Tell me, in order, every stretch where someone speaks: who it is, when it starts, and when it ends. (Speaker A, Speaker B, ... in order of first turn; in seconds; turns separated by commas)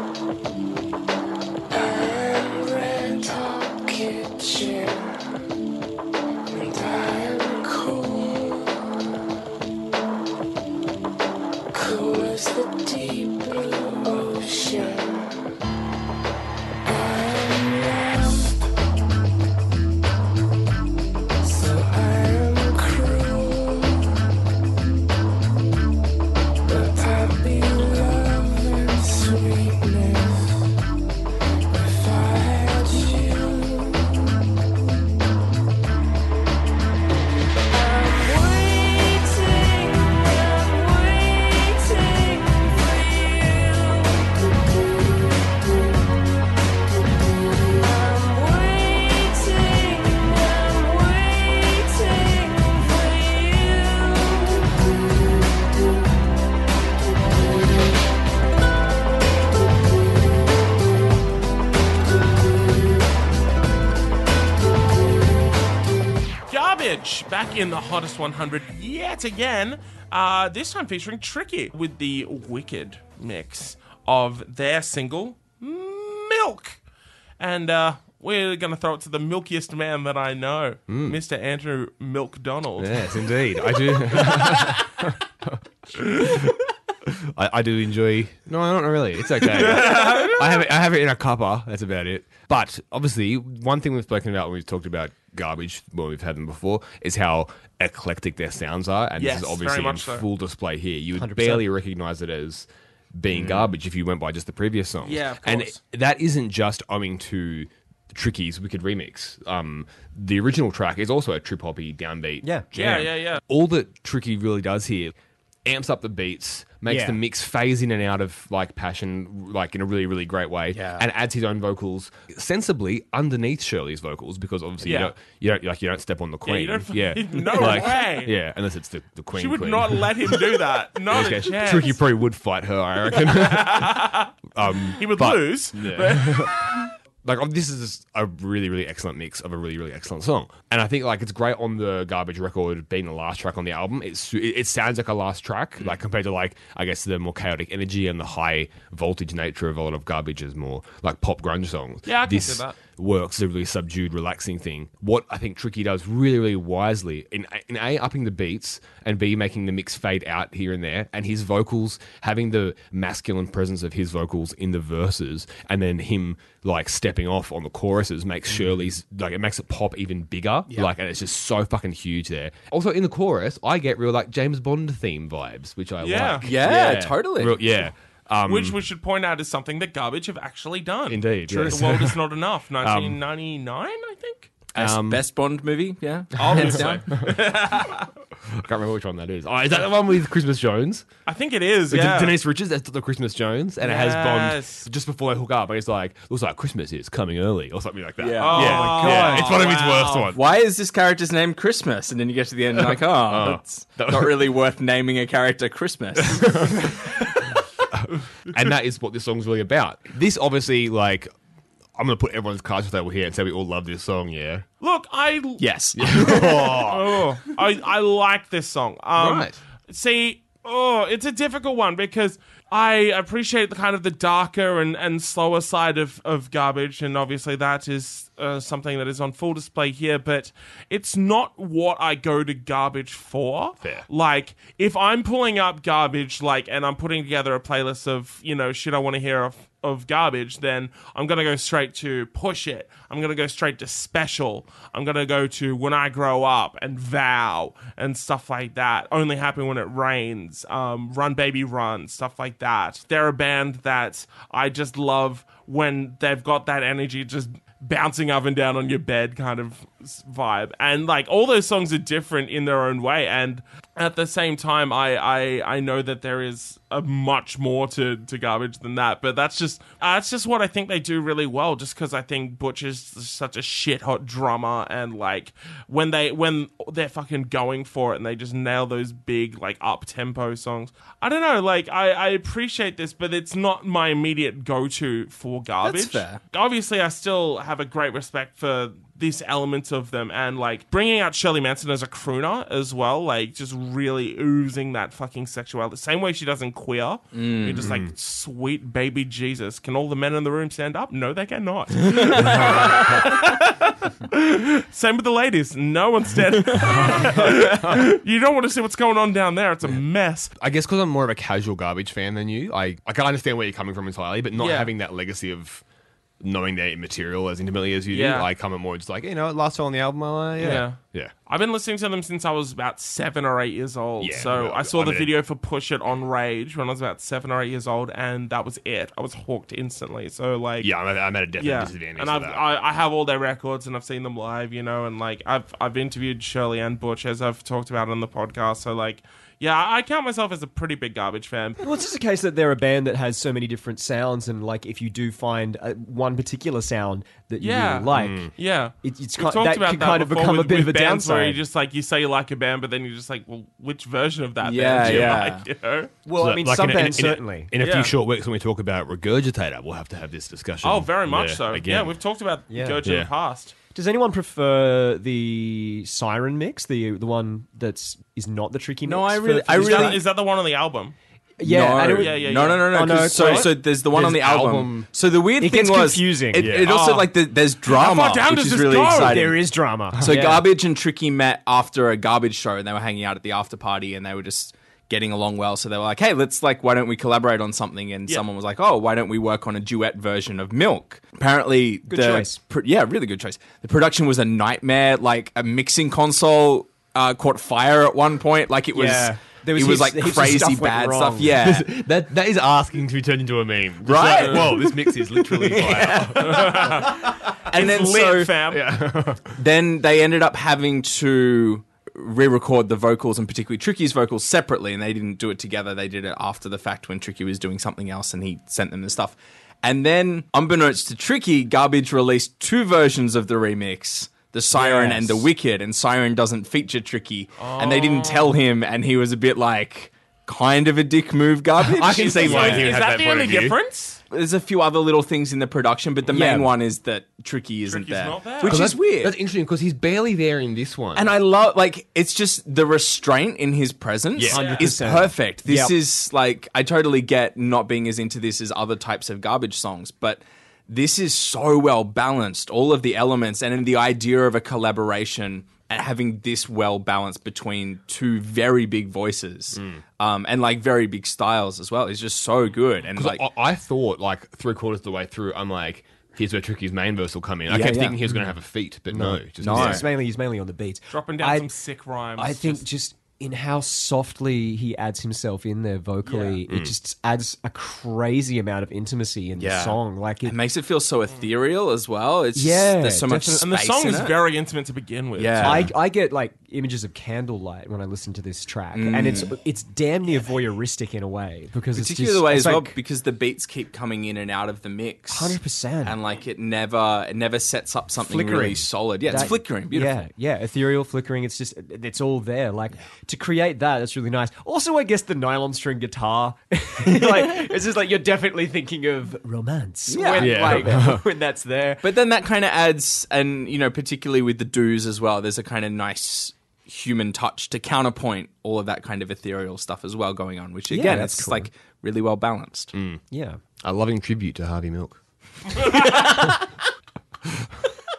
Speaker A: 1.7-5.0, Speaker A: 6.5-8.7, Speaker A: 11.7-15.3, Speaker A: 16.9-18.5, Speaker A: 21.4-24.0, Speaker A: 26.6-30.6, Speaker A: 31.7-34.0, Speaker A: 37.7-45.1, Speaker A: 47.7-54.8, Speaker B: 66.5-76.8, Speaker B: 77.4-84.8, Speaker C: 80.9-81.2, Speaker C: 82.8-178.8, Speaker B: 86.0-86.3, Speaker B: 89.5-90.6, Speaker B: 99.2-100.2, Speaker D: 101.1-101.6, Speaker E: 103.3-103.7, Speaker B: 105.0-105.8, Speaker B: 112.7-113.4, Speaker D: 116.9-117.2, Speaker E: 120.7-121.0, Speaker B: 124.8-125.1, Speaker B: 126.4-128.3, Speaker B: 129.3-132.0, Speaker B: 133.1-134.3, Speaker B: 135.0-136.8, Speaker B: 152.1-152.8, Speaker B: 176.0-176.4, Speaker E: 176.4-177.6, Speaker B: 178.4-184.5, Speaker C: 181.1-182.2, Speaker C: 182.8-183.2, Speaker E: 184.7-187.2, Speaker C: 184.8-185.2, Speaker B: 186.3-188.1, Speaker C: 186.4-187.4, Speaker C: 188.4-191.1, Speaker B: 191.2-192.4, Speaker C: 191.9-200.4, Speaker B: 193.8-194.8, Speaker E: 198.2-199.6, Speaker B: 198.4-200.3, Speaker E: 200.3-207.0, Speaker C: 203.2-204.4, Speaker C: 206.2-207.1, Speaker C: 207.9-211.3, Speaker C: 211.9-214.7, Speaker B: 214.8-310.5, Speaker E: 215.6-216.7, Speaker C: 215.9-217.2, Speaker C: 219.2-219.6, Speaker C: 233.8-234.1, Speaker E: 285.8-286.4, Speaker E: 297.3-297.9, Speaker C: 297.8-298.1, Speaker E: 302.4-302.6, Speaker C: 306.8-308.1, Speaker C: 310.6-315.8, Speaker B: 314.6-314.9, Speaker C: 316.4-321.3, Speaker B: 318.1-318.5, Speaker B: 320.6-330.9, Speaker C: 324.2-325.4, Speaker C: 330.8-332.6, Speaker B: 331.6-341.8, Speaker D: 341.8-348.5, Speaker B: 347.6-356.1, Speaker C: 348.1-348.5, Speaker D: 349.0-351.6, Speaker E: 354.6-355.6, Speaker C: 355.0-355.5, Speaker D: 356.2-357.7, Speaker C: 356.4-362.1, Speaker B: 357.8-358.1, Speaker B: 360.8-363.7, Speaker D: 362.7-363.0, Speaker C: 363.0-363.3, Speaker D: 363.9-370.2, Speaker E: 369.0-370.2, Speaker B: 369.8-371.1, Speaker D: 371.6-373.8, Speaker E: 371.6-379.6, Speaker B: 372.1-373.6, Speaker C: 373.9-375.1, Speaker D: 375.6-376.7, Speaker C: 376.5-376.9, Speaker B: 376.8-377.3, Speaker B: 377.9-379.4, Speaker D: 379.1-380.6, Speaker E: 380.2-401.9, Speaker D: 392.1-392.6, Speaker D: 398.9-401.6, Speaker C: 401.6-407.1, Speaker E: 404.0-407.1, Speaker B: 406.3-408.8, Speaker E: 407.7-408.5, Speaker C: 408.7-409.6, Speaker E: 409.6-432.9, Speaker D: 424.8-425.4, Speaker B: 427.6-428.5, Speaker C: 431.8-433.8, Speaker B: 432.2-434.2, Speaker E: 434.3-439.3, Speaker D: 436.3-436.7, Speaker B: 437.9-438.8, Speaker C: 438.6-441.3, Speaker E: 441.1-463.4, Speaker C: 444.3-444.7, Speaker B: 444.5-444.9, Speaker D: 444.5-445.9, Speaker C: 459.7-460.0, Speaker C: 463.1-470.1, Speaker E: 467.7-468.2, Speaker D: 469.1-471.7, Speaker E: 469.6-470.1, Speaker B: 471.1-472.9, Speaker D: 472.4-480.6, Speaker B: 476.2-476.6, Speaker C: 476.7-476.9, Speaker E: 479.6-484.4, Speaker D: 482.5-483.6, Speaker B: 483.6-485.8, Speaker E: 485.4-485.9, Speaker D: 485.6-493.0, Speaker E: 488.9-489.5, Speaker E: 491.9-500.2, Speaker D: 495.3-496.1, Speaker D: 498.2-512.0, Speaker E: 507.0-507.7, Speaker E: 510.1-511.1, Speaker C: 510.4-511.2, Speaker E: 512.0-522.9, Speaker D: 520.9-521.7, Speaker C: 522.9-523.2, Speaker D: 523.3-523.6, Speaker C: 523.8-526.2